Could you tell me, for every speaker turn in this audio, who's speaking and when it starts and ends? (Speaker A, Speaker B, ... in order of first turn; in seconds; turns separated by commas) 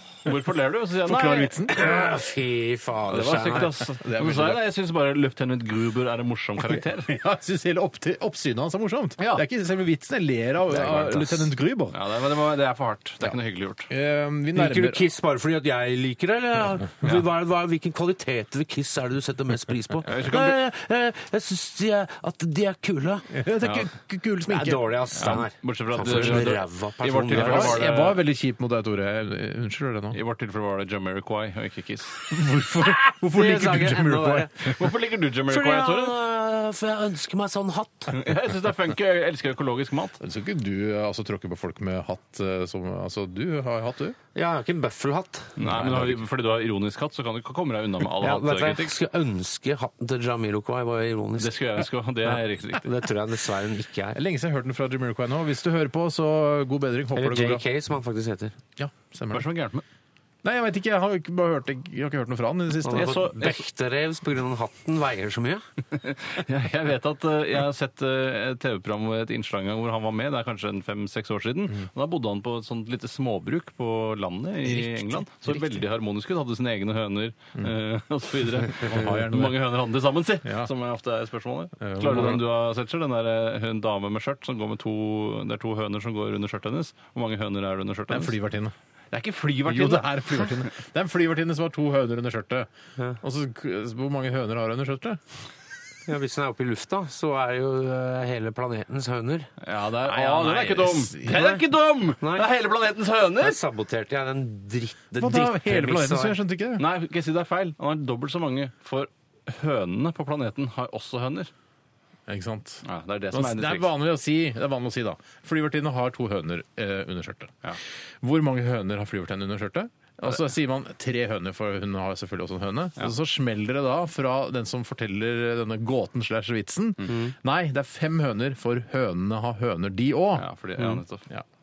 Speaker A: 0.2-1.6, Speaker B: 1.0-1.9, Speaker C: 1.7-3.7, Speaker A: 3.1-7.1, Speaker B: 3.6-4.6, Speaker B: 6.6-11.9, Speaker A: 10.8-13.9, Speaker B: 13.9-15.0, Speaker C: 14.5-23.3, Speaker A: 20.1-20.6, Speaker B: 23.3-25.4, Speaker C: 24.5-27.8, Speaker A: 25.2-28.2, Speaker B: 25.9-26.6, Speaker B: 27.3-30.2, Speaker A: 30.1-32.2, Speaker B: 32.3-34.7, Speaker C: 32.9-34.5, Speaker A: 34.6-36.1, Speaker C: 35.5-38.2, Speaker A: 38.1-40.2, Speaker B: 40.2-44.1, Speaker C: 44.3-46.0, Speaker A: 45.6-48.9, Speaker B: 45.6-46.1, Speaker C: 48.2-51.6, Speaker A: 51.4-52.9, Speaker C: 52.8-54.2, Speaker B: 54.1-57.6, Speaker C: 57.1-58.5, Speaker B: 58.8-59.5, Speaker A: 59.3-59.8, Speaker B: 60.4-63.3, Speaker C: 62.8-65.6, Speaker A: 62.9-63.6, Speaker A: 66.0-88.3, Speaker B: 75.5-75.8, Speaker B: 78.8-79.6, Speaker B: 80.4-80.7, Speaker B: 81.8-82.4, Speaker B: 88.1-88.7, Speaker A: 89.1-90.7, Speaker B: 89.6-92.7, Speaker B: 93.2-95.2, Speaker C: 96.1-99.5, Speaker A: 99.6-103.6, Speaker B: 100.0-101.6, Speaker C: 102.2-102.5, Speaker C: 103.4-106.4, Speaker B: 105.2-106.8, Speaker A: 106.8-111.5, Speaker B: 112.3-117.5, Speaker A: 112.8-113.8, Speaker B: 118.2-131.4, Speaker A: 130.3-131.2